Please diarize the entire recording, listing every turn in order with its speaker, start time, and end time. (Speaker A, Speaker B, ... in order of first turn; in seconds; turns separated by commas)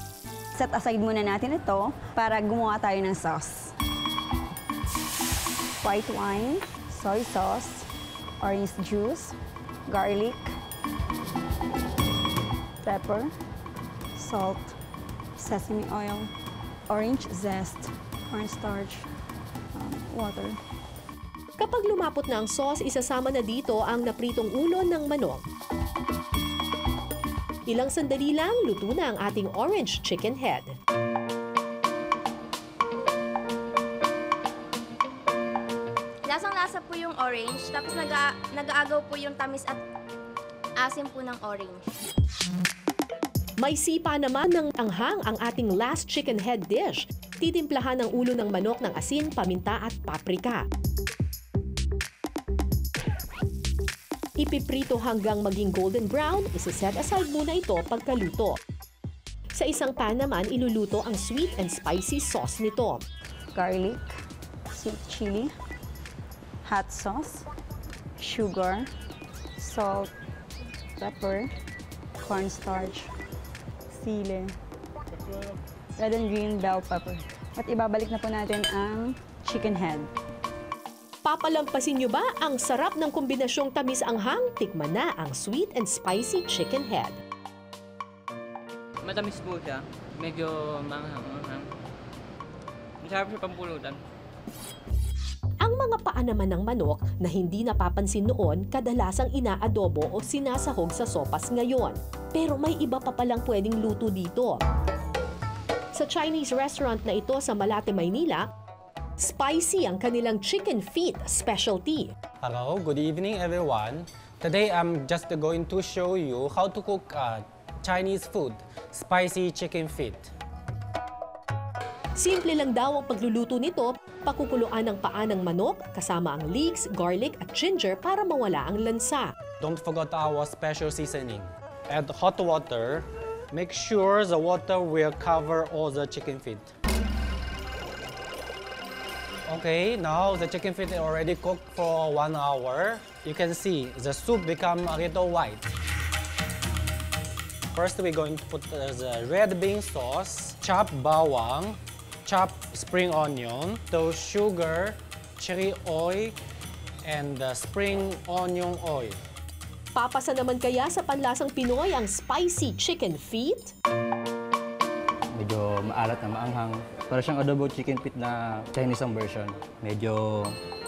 Speaker A: 0.5-3.8, Speaker A: 5.8-7.9, Speaker A: 8.4-9.3, Speaker A: 9.9-10.5, Speaker A: 12.8-13.3, Speaker A: 14.1-14.7, Speaker A: 15.4-16.3, Speaker A: 16.9-19.1, Speaker A: 19.7-20.6, Speaker B: 21.6-25.4, Speaker B: 27.7-30.7, Speaker C: 36.2-39.8, Speaker C: 40.8-41.8, Speaker B: 43.6-50.6, Speaker B: 54.4-58.6, Speaker B: 59.5-63.0, Speaker A: 63.5-64.1, Speaker A: 64.7-65.5, Speaker A: 66.7-67.5, Speaker A: 68.2-68.9, Speaker A: 69.6-70.1, Speaker A: 71.0-71.5, Speaker A: 72.2-73.1, Speaker A: 73.9-74.5, Speaker A: 76.0-80.1, Speaker B: 81.2-87.2, Speaker D: 89.0-91.7, Speaker D: 93.0-94.0, Speaker B: 95.6-104.6, Speaker B: 105.9-108.5, Speaker B: 109.2-112.1, Speaker E: 112.4-120.3, Speaker B: 122.1-129.3, Speaker E: 129.6-136.7, Speaker E: 139.5-145.7, Speaker E: 147.7-156.3, Speaker E: 157.0-159.2, Speaker B: 159.9-163.7, Speaker F: 165.3-170.6